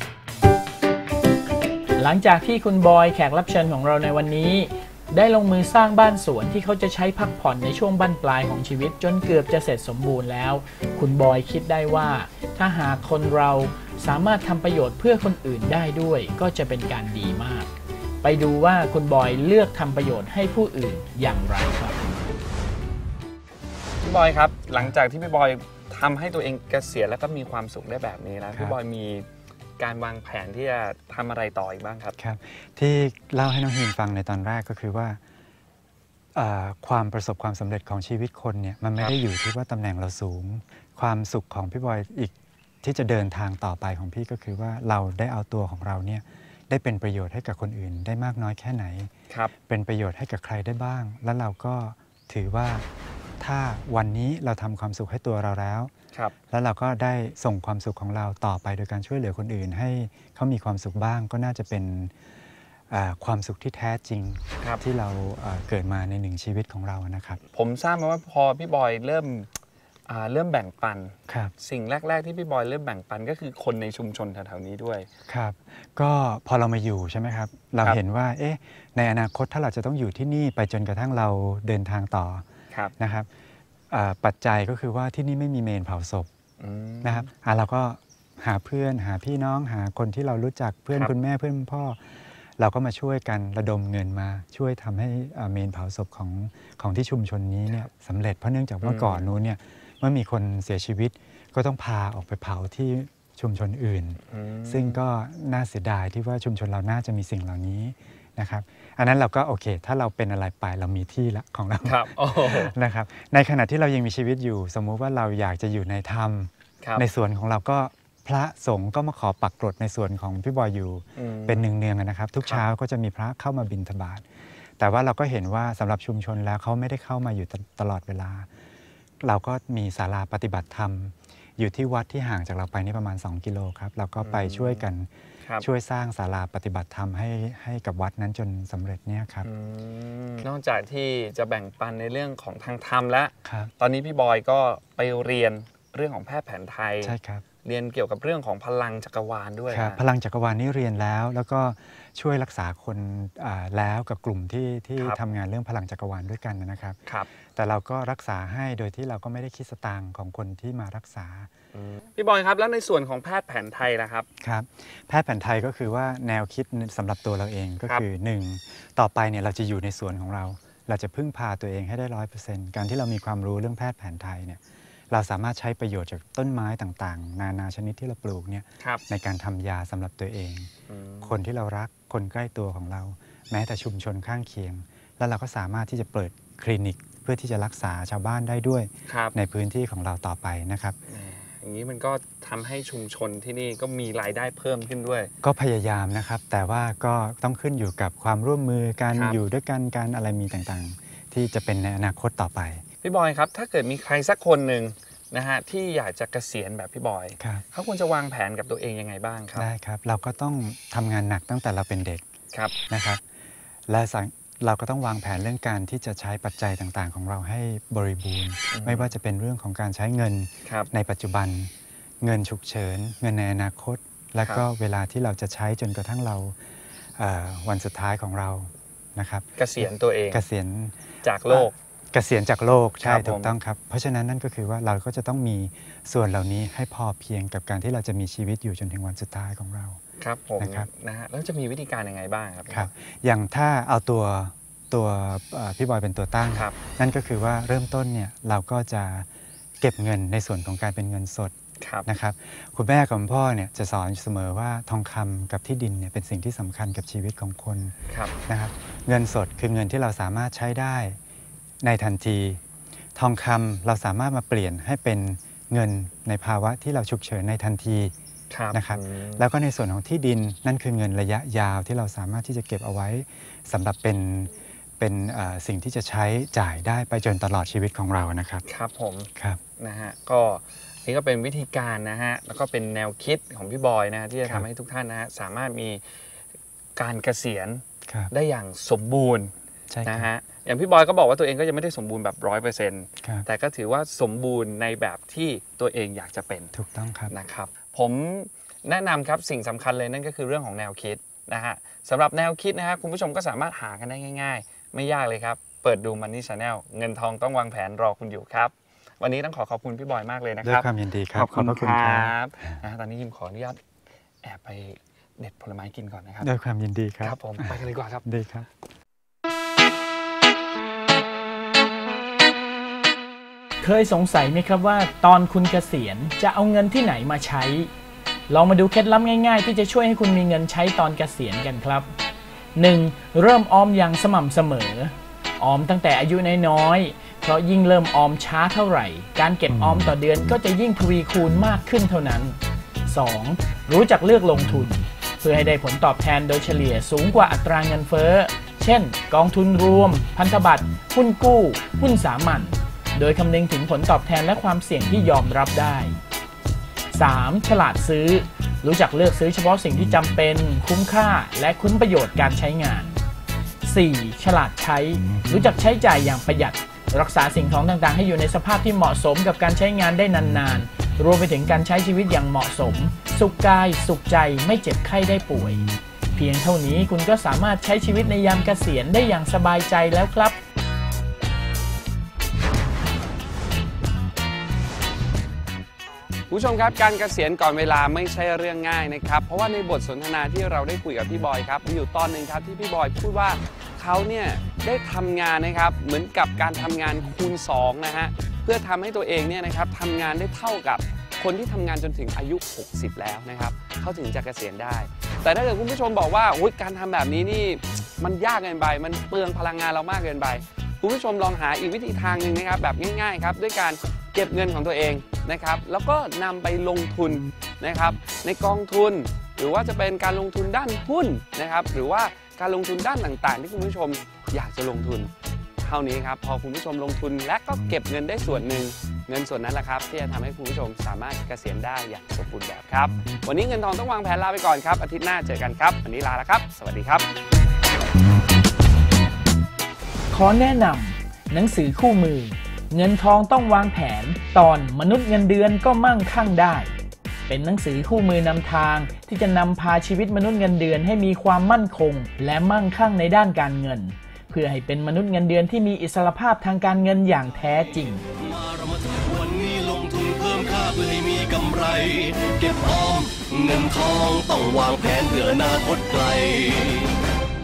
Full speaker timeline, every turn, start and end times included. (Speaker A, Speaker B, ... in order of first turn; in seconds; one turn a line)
Speaker A: 1.9-17.7
Speaker A: 18.2-22.2
Speaker B: 24.0-29.3
Speaker B: 29.8-32.1
Speaker C: 32.2-35.2
Speaker C: 36.3-49.1
Speaker C: 49.7-52.9
Speaker C: 53.4-55.9
Speaker C: 56.5-62.1
Speaker C: 62.9-67.4
Speaker B: 67.5-69.5
Speaker B: 70.0-75.1
Speaker C: 71.3-71.5
Speaker C: 75.3-82.4
Speaker C: 83.0-83.3
Speaker C: 83.9-86.3
Speaker B: 86.6-87.3
Speaker C: 87.0-124.2
Speaker B: 98.8-99.3
Speaker B: 104.3-105.0
Speaker B: 111.8-112.7
Speaker B: 121.2-121.7
Speaker C: 124.8-128.5
Speaker C: 129.2-135.1
Speaker B: 134.2-134.8
Speaker C: 135.6-139.5
Speaker B: 139.4-150.0
Speaker C: 143.4-143.7
Speaker C: 147.0-147.4
Speaker C: 149.7-161.5
Speaker B: 161.7-164.3
Speaker C: 164.4-180.7
Speaker B: 180.9-181.4
Speaker C: 181.2-191.0
Speaker B: 189.1-189.3
Speaker B: 191.1-195.3
Speaker C: 195.4-202.8
Speaker B: 199.1-199.4
Speaker B: 203.0-209.7
Speaker C: 207.4-207.6
Speaker C: 209.5-212.2
Speaker C: 212.9-213.2
Speaker C: 213.9-221.7
Speaker B: 218.7-219.1
Speaker C: 222.2-226.6
Speaker C: 227.2-231.0
Speaker B: 229.6-230.4
Speaker B: 231.2-231.8
Speaker C: 231.5-240.0
Speaker B: 233.0-233.5
Speaker B: 240.2-242.9
Speaker C: 240.6-240.9
Speaker C: 242.7-249.3
Speaker C: 249.8-251.5
Speaker B: 251.8-252.1
Speaker C: 252.1-257.9
Speaker B: 258.1-258.3
Speaker C: 258.5-261.2
Speaker C: 261.8-262.6
Speaker C: 263.1-268.1
Speaker B: 268.5-269.4
Speaker C: 268.7-278.6
Speaker B: 278.6-286.0
Speaker B: 286.9-289.5
Speaker C: 289.9-290.3
Speaker B: 290.0-296.7
Speaker C: 296.7-297.3
Speaker B: 297.3-313.8
Speaker C: 310.6-312.3
Speaker B: 314.4-316.5
Speaker C: 316.4-317.7
Speaker B: 317.2-318.2
Speaker C: 318.2-318.7
Speaker A: 323.8-327.9
Speaker A: 328.5-332.1
Speaker A: 332.8-356.2
Speaker A: 357.1-363.2
Speaker A: 363.8-375.8
Speaker A: 376.3-380.6
Speaker B: 386.5-425.3
Speaker B: 425.8-437.3
Speaker A: 440.3-446.9
Speaker A: 447.5-458.2
Speaker D: 458.4-467.1